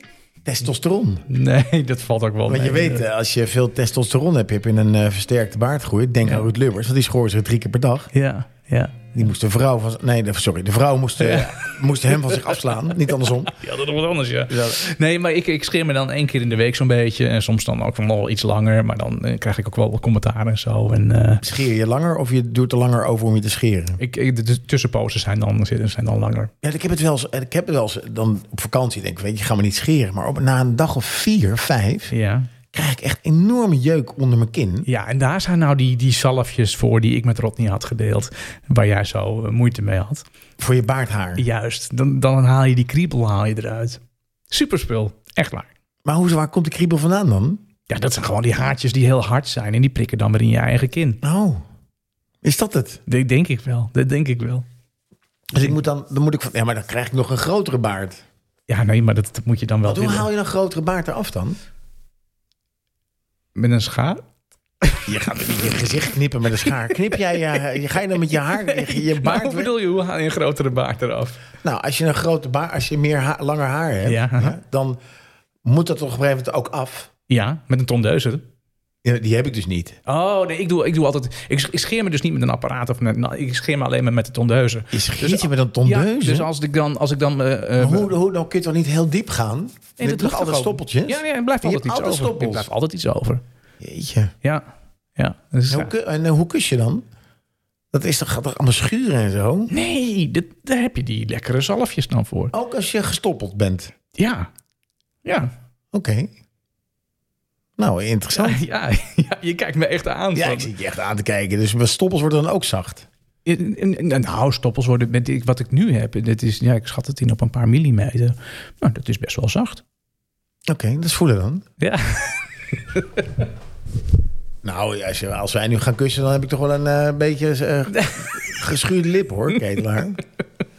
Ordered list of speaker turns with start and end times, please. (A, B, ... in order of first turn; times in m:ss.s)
0:00.4-0:01.2 A
0:01.3-0:03.0 B
0:02.5-0:08.1 A
0:08.1-0:09.1 B
0:09.1-0:13.5 A
0:11.2-0:12.6 B
0:13.1-0:21.4 B
0:14.5-0:14.8 A
0:21.4-0:24.0 A
0:24.0-0:26.5 B
0:26.6-0:32.1 A
0:32.1-0:32.5 B
0:32.7-0:34.9 A
0:34.8-0:40.2 B
0:40.6-0:41.4 A
0:41.4-0:45.7 B
0:46.0-0:47.6 A
0:47.9-0:51.2 B
0:51.2-0:51.6 A
0:52.4-0:53.0 A
0:53.1-0:54.6 B
0:55.5-0:58.2 A
0:58.7-1:00.3 B
0:59.8-1:01.6 A
1:03.6-1:04.2 B
1:04.8-1:05.8 B
1:05.0-1:09.7 A
1:08.4-1:11.4 B
1:11.6-1:15.0 A
1:14.0-1:14.6 B
1:15.6-1:17.1 A
1:17.3-1:18.4 B
1:19.0-1:20.0 A
1:20.0-1:28.1 B
1:24.9-1:26.5 A
1:27.8-1:32.7 A
1:30.0-1:33.4 B
1:33.8-1:34.3 A
1:35.2-1:35.9 B
1:35.7-1:37.0 A
1:37.9-1:39.7 A
1:39.7-1:42.5 B
1:42.5-1:43.9 A
1:44.1-1:44.5 B
1:45.2-1:45.5 B
1:45.9-1:46.3 A
1:47.8-1:48.6 A
1:48.4-1:50.7 B
1:50.3-1:53.0 A
1:53.4-1:59.8 B
2:00.7-2:01.6 A
2:01.8-2:03.3 B
2:04.6-2:10.2 A
2:07.9-2:08.6 B